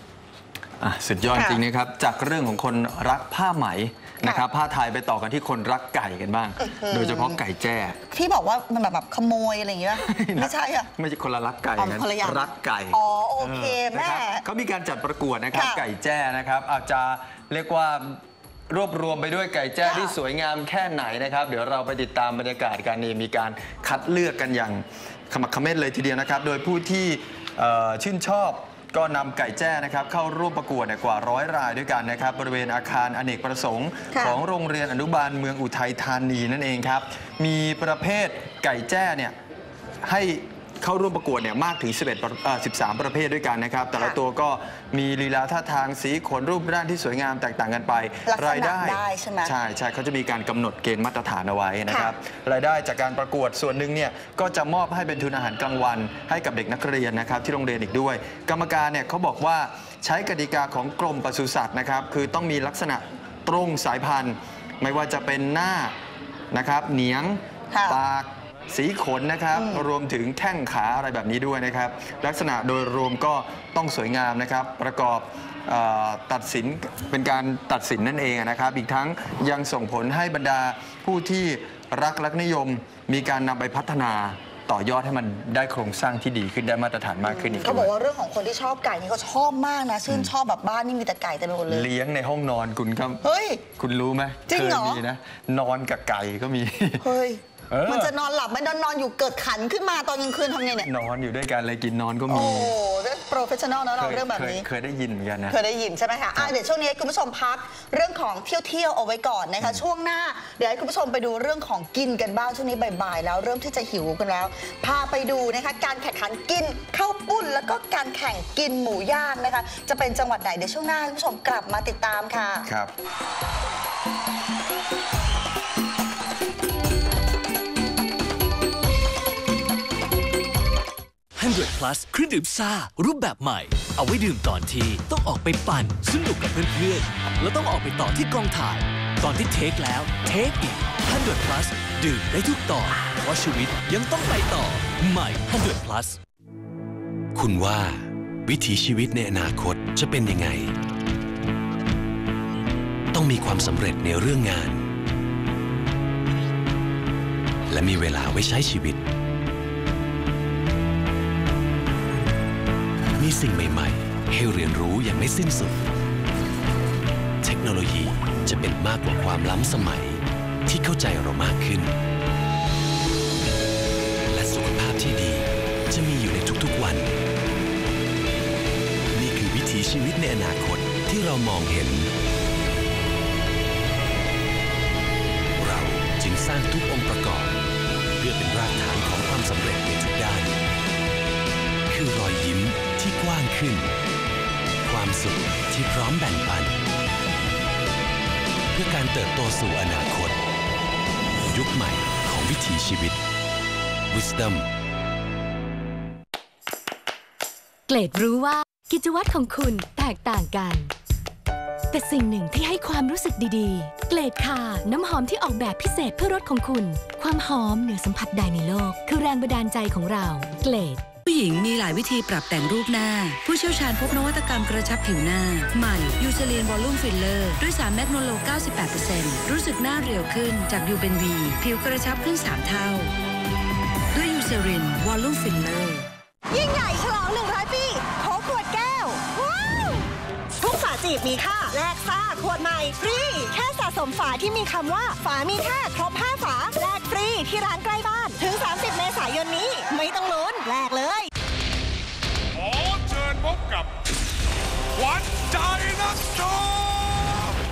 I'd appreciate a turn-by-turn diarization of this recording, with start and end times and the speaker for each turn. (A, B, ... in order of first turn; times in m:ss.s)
0:00.8-0:08.0 A
0:01.3-0:01.6 B
0:06.6-0:07.4 B
0:08.1-0:10.9 B
0:10.0-0:39.3 A
0:11.8-0:14.4 B
0:15.5-0:15.8 B
0:19.8-0:20.2 B
0:34.1-0:34.4 B
0:40.0-1:05.9 A
0:48.2-0:49.5 B
0:51.9-0:52.1 B
1:06.5-1:27.9 A
1:07.7-1:08.0 B
1:09.5-1:09.8 B
1:27.2-1:31.9 B
1:31.7-1:33.2 A
1:33.2-1:33.6 B
1:33.8-1:37.0 A
1:34.5-1:35.0 B
1:37.0-1:40.9 B
1:37.7-1:38.1 A
1:40.8-1:42.7 A
1:42.3-1:44.6 B
1:44.0-1:45.6 A
1:45.5-2:02.7 B
2:02.6-2:02.9 A
2:11.4-2:26.2 C
2:27.4-2:30.7 D
2:33.1-2:34.9 D
2:37.7-2:39.0 D
2:43.2-2:45.8 D
2:47.4-2:48.0 D
2:48.6-2:50.2 D
2:50.8-2:51.9 D
2:54.3-2:57.1 D
2:59.2-3:02.1 D
3:05.6-3:07.6 D
3:08.2-3:10.6 D
3:11.9-3:13.9 D
3:14.8-3:16.8 D
3:18.7-3:20.4 D
3:21.5-3:23.2 D
3:24.1-3:24.7 D
3:27.9-3:30.9 E
3:31.9-3:41.0 E
3:41.2-3:53.1 F
3:54.1-3:56.0 F
4:00.9-4:01.9 G
4:02.5-4:11.1 G
4:12.6-4:13.9 H
4:15.0-4:17.5 H